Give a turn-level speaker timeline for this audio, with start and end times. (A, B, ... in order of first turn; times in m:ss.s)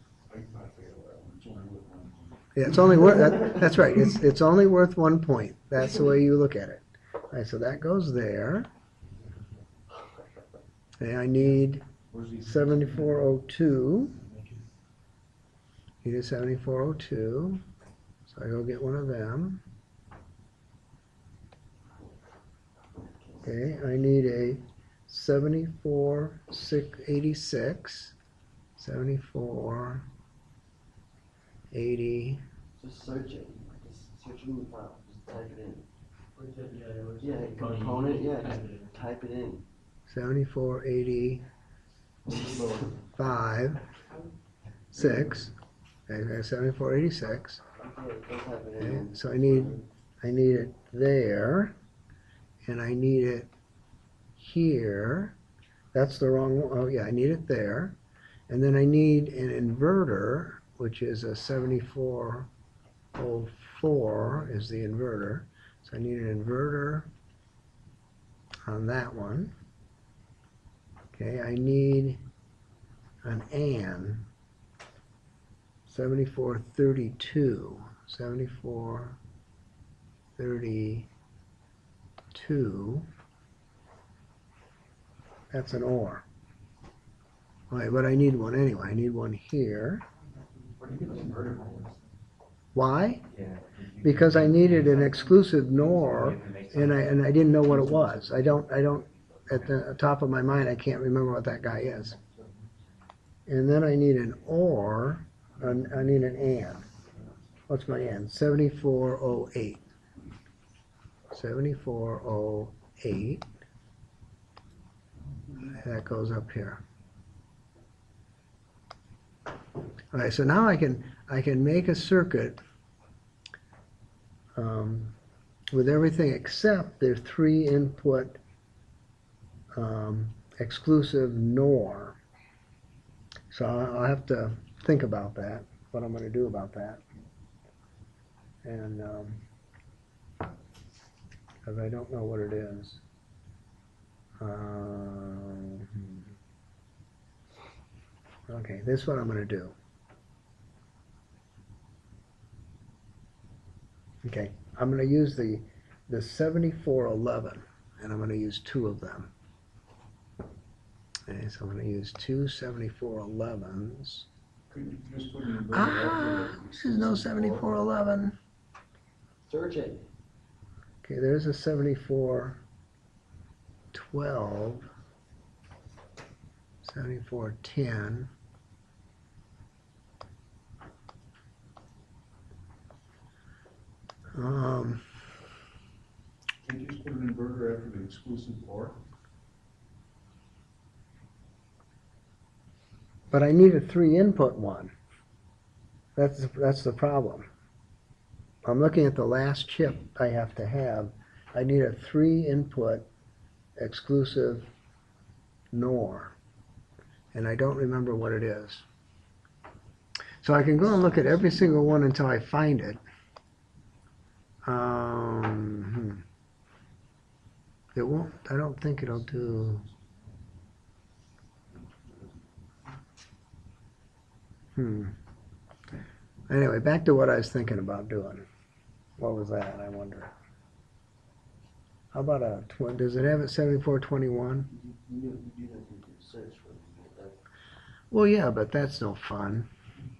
0:00.3-0:03.2 A
0:02.6-0:08.7 B
0:11.0-0:11.8 B
0:12.1-0:13.3 A
0:12.4-0:14.2 B
0:16.0-0:17.6 B
0:18.3-0:19.6 B
0:23.4-0:28.2 B
0:28.8-0:30.1 B
0:31.7-0:32.4 B
0:32.8-0:35.9 C
0:36.4-0:39.0 D
0:37.2-0:39.7 C
0:40.1-0:41.4 B
0:42.3-0:43.0 C
0:43.2-0:43.8 B
0:44.9-0:45.5 B
0:46.1-0:47.6 B
0:47.8-0:49.8 C
0:48.8-0:51.8 B
0:52.7-0:53.5 B
0:54.4-0:55.4 B
0:55.9-0:58.0 B
0:58.5-1:02.5 B
1:03.2-1:07.1 B
1:08.7-1:09.5 B
1:11.1-1:12.2 B
1:13.2-1:14.3 B
1:15.9-1:19.2 B
1:20.4-1:21.1 B
1:22.3-1:23.1 B
1:25.5-1:26.2 B
1:27.7-1:30.0 B
1:30.8-1:31.9 D
1:32.7-1:33.2 B
1:33.3-1:39.7 D
1:34.0-1:42.2 B
1:43.5-1:46.8 B
1:47.7-1:49.8 B
1:51.3-1:53.5 B
1:55.6-1:56.8 B
2:00.1-2:02.6 B
2:04.6-2:05.2 B
2:05.7-2:08.4 B
2:09.8-2:12.2 B
2:13.5-2:17.0 B
2:18.6-2:19.4 B
2:21.6-2:23.0 B
2:24.4-2:26.3 B
2:28.5-2:29.8 B
2:34.2-2:39.3 B
2:41.3-2:44.3 B
2:44.7-2:47.8 A
2:45.7-2:48.4 B
2:49.5-2:50.1 C
2:51.0-2:52.6 B
2:53.9-2:54.9 B
2:56.8-2:58.3 B
3:04.3-3:05.0 B
3:06.6-3:09.0 A
3:13.3-3:14.9 B
3:16.2-3:17.5 B
3:18.6-3:23.1 B
3:23.8-3:24.7 B
3:25.7-3:26.4 B
3:27.3-3:28.9 B
3:30.4-3:33.0 B
3:34.6-3:36.2 B
3:38.0-3:39.9 B
3:39.5-3:39.9 A
3:41.8-3:42.2 A
3:44.8-3:45.2 B
3:46.5-3:48.5 B
3:49.2-3:50.3 B
3:52.1-3:54.7 B
3:54.7-3:57.4 C
3:58.1-3:59.7 B